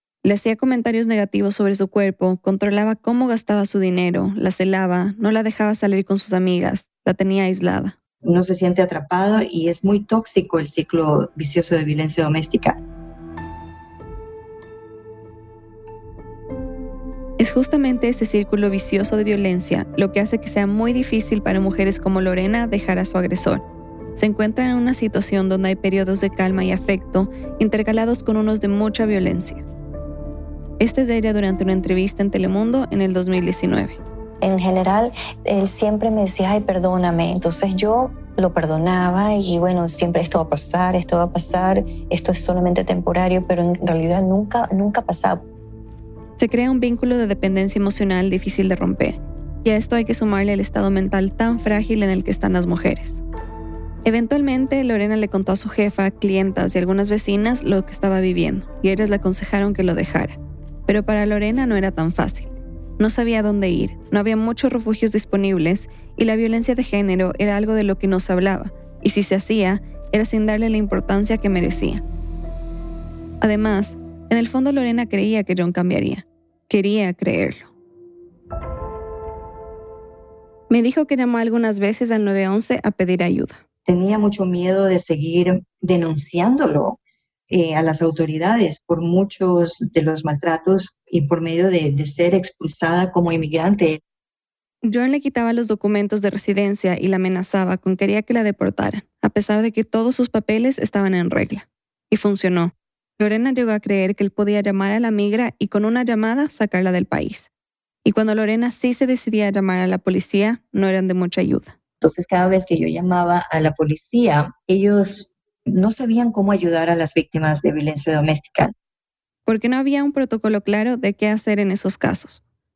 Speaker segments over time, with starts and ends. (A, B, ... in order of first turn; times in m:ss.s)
0:00.2-0:08.0 A
0:08.2-0:12.8 B
0:17.4-0:23.6 A
0:24.2-0:29.6 A
0:30.8-0:34.0 A
0:34.4-0:45.4 C
0:46.4-0:53.2 A
0:54.0-1:12.0 A
1:13.4-1:17.7 A
1:20.7-1:23.6 A
1:23.9-1:27.0 B
1:27.5-1:34.0 B
1:34.8-1:47.5 A
1:48.0-1:51.8 A
1:52.0-1:58.7 B
1:59.5-2:02.4 A